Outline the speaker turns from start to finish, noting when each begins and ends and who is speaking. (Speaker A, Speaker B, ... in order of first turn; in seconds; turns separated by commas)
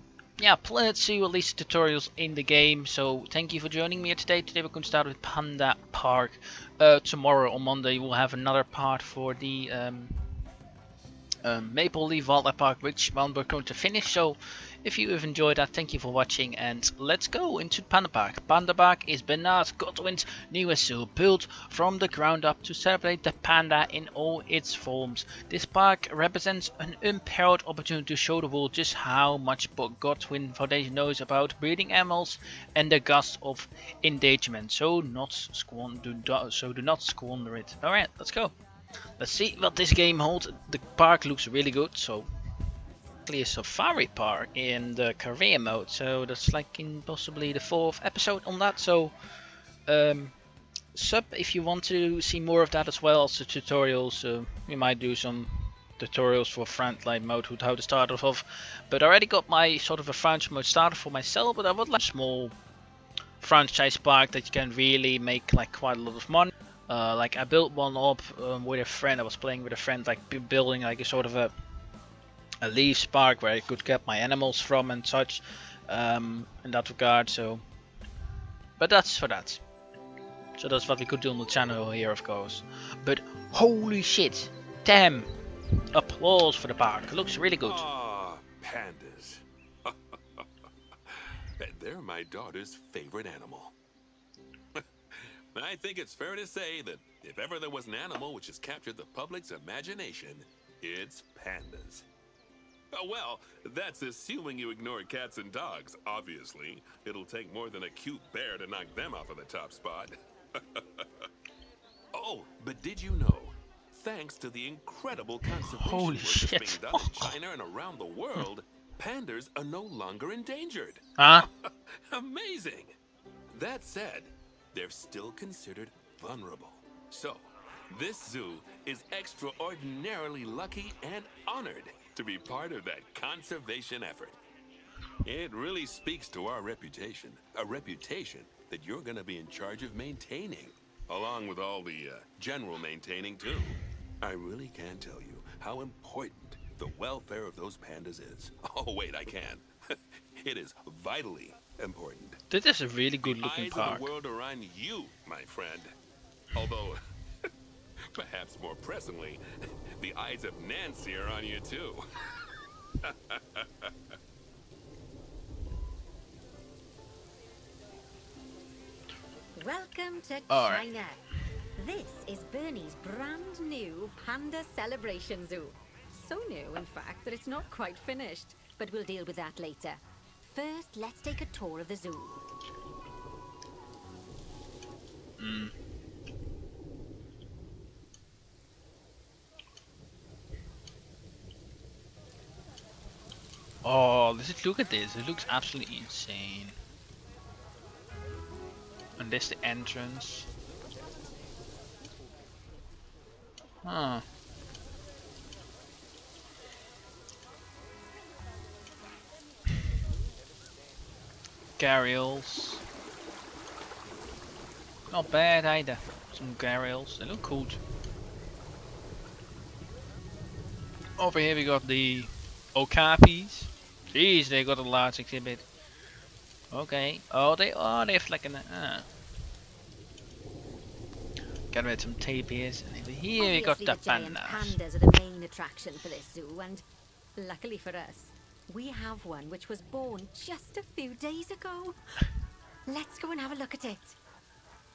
Speaker A: 0.4-10.4, Speaker A: 11.4-38.5, Speaker A: 39.2-42.3, Speaker A: 43.2-49.1, Speaker A: 49.9-50.4, Speaker A: 50.9-62.5, Speaker A: 63.4-71.5, Speaker A: 72.6-77.6, Speaker A: 78.8-79.6, Speaker A: 80.6-85.3, Speaker A: 85.9-87.8, Speaker B: 87.6-90.5, Speaker B: 91.1-93.7, Speaker B: 94.8-102.0, Speaker B: 102.9-111.0, Speaker B: 112.1-122.9, Speaker A: 115.5-117.3, Speaker A: 121.2-121.5, Speaker B: 123.5-134.4, Speaker B: 135.2-152.4, Speaker A: 152.5-154.1, Speaker B: 153.2-155.9, Speaker B: 156.5-157.0, Speaker B: 158.1-159.4, Speaker B: 160.0-162.1, Speaker B: 163.0-163.9, Speaker C: 169.5-171.2, Speaker A: 170.5-170.8, Speaker C: 171.8-182.4, Speaker A: 185.4-185.7, Speaker A: 193.8-196.8, Speaker A: 199.2-200.5, Speaker A: 203.8-204.2, Speaker A: 211.8-212.8, Speaker A: 215.1-217.8, Speaker A: 221.2-225.6, Speaker A: 226.7-229.1, Speaker A: 231.7-234.8, Speaker C: 233.4-236.8, Speaker C: 237.3-242.0, Speaker C: 242.8-244.2